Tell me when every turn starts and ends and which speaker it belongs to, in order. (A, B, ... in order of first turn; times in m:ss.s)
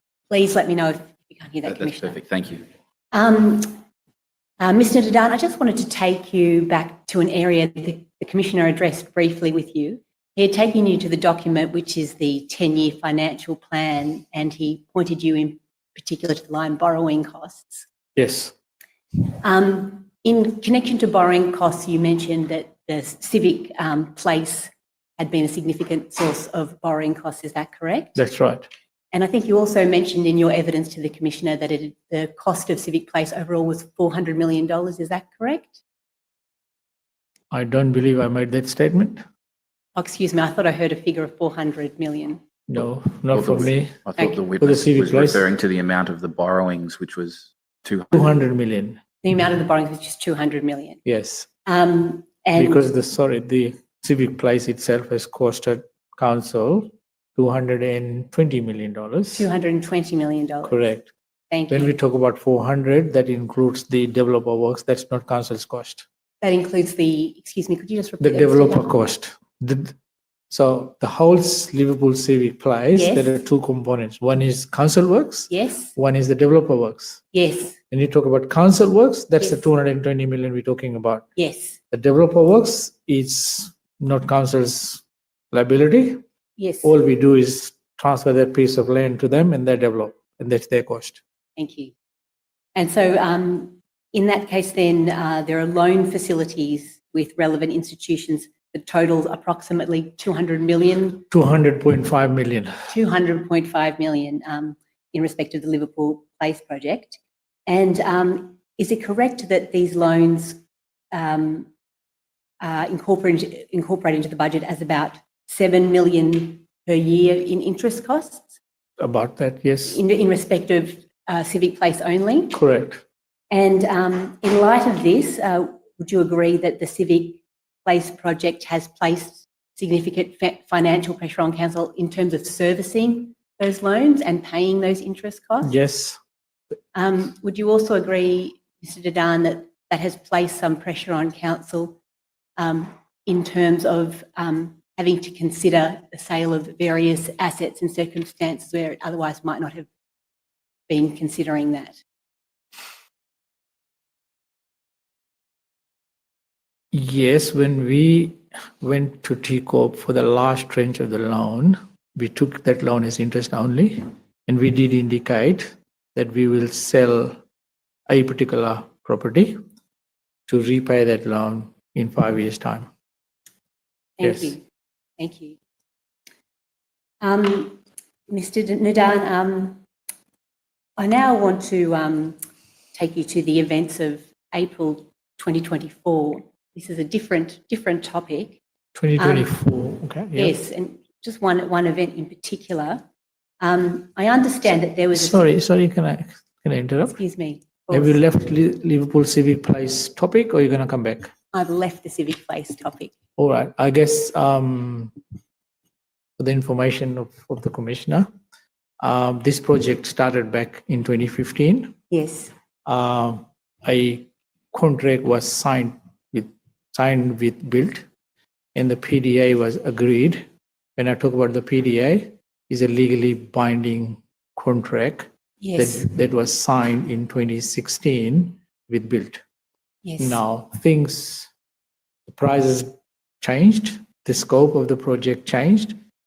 0:00.3-0:02.2 A
0:01.6-0:02.6 B
0:03.1-0:03.8 A
0:04.6-0:17.9 A
0:18.2-0:18.5 C
0:19.4-0:28.2 A
0:28.2-0:28.7 C
0:29.1-0:35.8 A
0:37.5-0:39.2 C
0:40.0-0:42.4 A
0:42.7-0:44.0 C
0:43.3-0:48.4 B
0:44.6-0:45.5 C
0:48.1-0:49.0 C
0:49.2-0:51.0 A
0:51.0-0:51.5 C
0:51.7-0:52.9 A
0:52.6-0:59.5 C
0:59.3-1:00.9 A
1:00.7-1:01.1 C
1:01.5-1:02.0 A
1:01.7-1:06.0 C
1:06.4-1:09.0 A
1:08.2-1:09.9 C
1:10.5-1:17.2 C
1:12.9-1:13.4 A
1:15.5-1:16.0 A
1:17.3-1:17.8 A
1:17.9-1:21.3 C
1:21.4-1:21.8 A
1:21.9-1:26.2 C
1:26.6-1:26.9 A
1:26.8-1:31.2 C
1:31.6-1:32.0 A
1:32.8-1:41.3 A
1:41.3-1:42.9 C
1:42.9-1:50.6 A
1:51.1-1:51.7 A
1:52.6-1:58.6 A
1:59.0-2:00.0 C
1:59.8-2:02.6 A
2:02.5-2:03.0 C
2:03.5-2:15.7 A
2:15.6-2:16.2 C
2:16.9-2:22.0 A
2:22.6-2:29.9 A
2:30.9-2:32.0 A
2:36.9-2:47.4 C
2:48.1-2:49.6 C
2:50.5-2:52.9 C
2:54.2-2:54.6 A
2:54.2-2:54.6 C
2:55.2-2:55.6 A
2:57.2-2:59.8 A
3:01.0-3:02.4 A
3:02.9-3:08.6 A
3:09.0-3:10.6 C
3:09.2-3:09.6 A
3:10.4-3:13.0 A
3:13.6-3:15.5 A
3:15.1-3:17.2 C
3:17.1-3:18.2 A
3:17.9-3:21.3 C
3:21.5-3:23.1 A
3:23.4-3:25.1 C
3:26.4-3:28.3 C
3:29.0-3:31.9 C
3:32.1-3:32.5 A
3:32.9-3:38.0 C
3:38.8-3:40.4 C
3:41.0-3:49.4 C
3:45.6-3:46.1 A
3:50.0-3:50.4 A
3:50.2-3:51.5 C
3:52.3-3:56.0 C